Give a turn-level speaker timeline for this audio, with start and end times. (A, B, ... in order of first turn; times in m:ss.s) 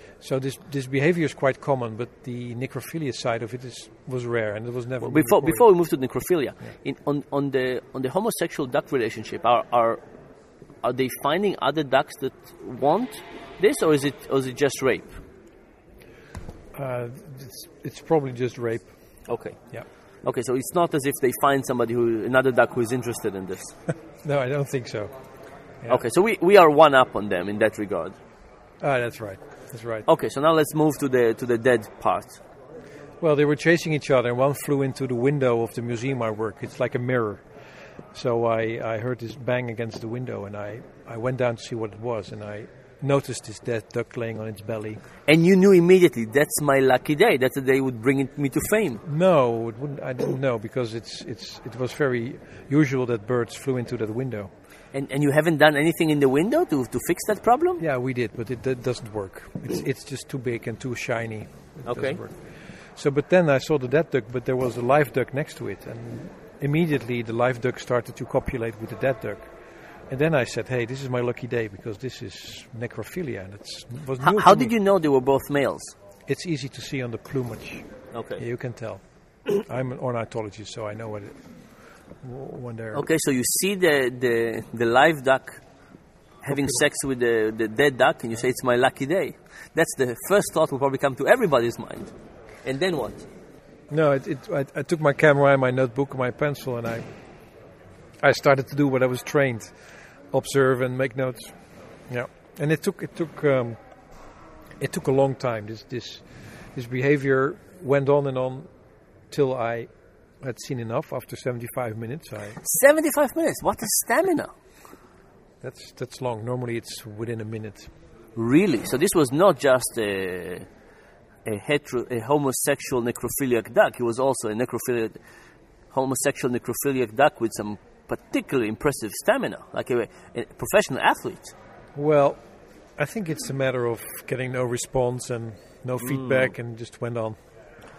0:00.2-0:05.7 A
0:05.0-0:10.0 B
0:10.8-0:15.2 B
0:16.7-0:18.9 A
0:19.3-0:19.6 B
0:20.2-0:23.7 B
0:24.2-0:25.1 A
0:25.9-0:28.2 B
0:28.8-0:30.0 A
0:30.0-0:32.4 B
0:33.2-0:37.4 A
0:38.1-0:45.0 A
0:45.2-0:49.0 B
0:49.0-0:54.5 A
0:54.9-0:57.8 B
0:57.8-1:02.4 A
1:01.8-1:02.2 B
1:03.0-1:09.5 A
1:10.1-1:14.7 A
1:14.2-1:15.9 B
1:16.3-1:17.8 A
1:18.1-1:18.4 B
1:18.4-1:21.5 A
1:22.2-1:23.0 A
1:22.9-1:25.6 B
1:26.4-1:32.1 B
1:26.5-1:26.8 A
1:32.6-1:33.2 B
1:33.9-1:37.0 A
1:38.2-1:39.7 A
1:40.3-1:41.5 A
1:42.1-1:43.8 A
1:44.8-1:48.7 A
1:49.3-1:49.9 A
1:50.4-1:52.6 A
1:52.6-1:54.5 B
1:55.6-1:57.9 A
1:58.4-2:00.6 B
2:01.4-2:05.2 B
2:05.9-2:11.5 B
2:11.9-2:12.4 A
2:13.0-2:17.4 A
2:16.0-2:16.5 B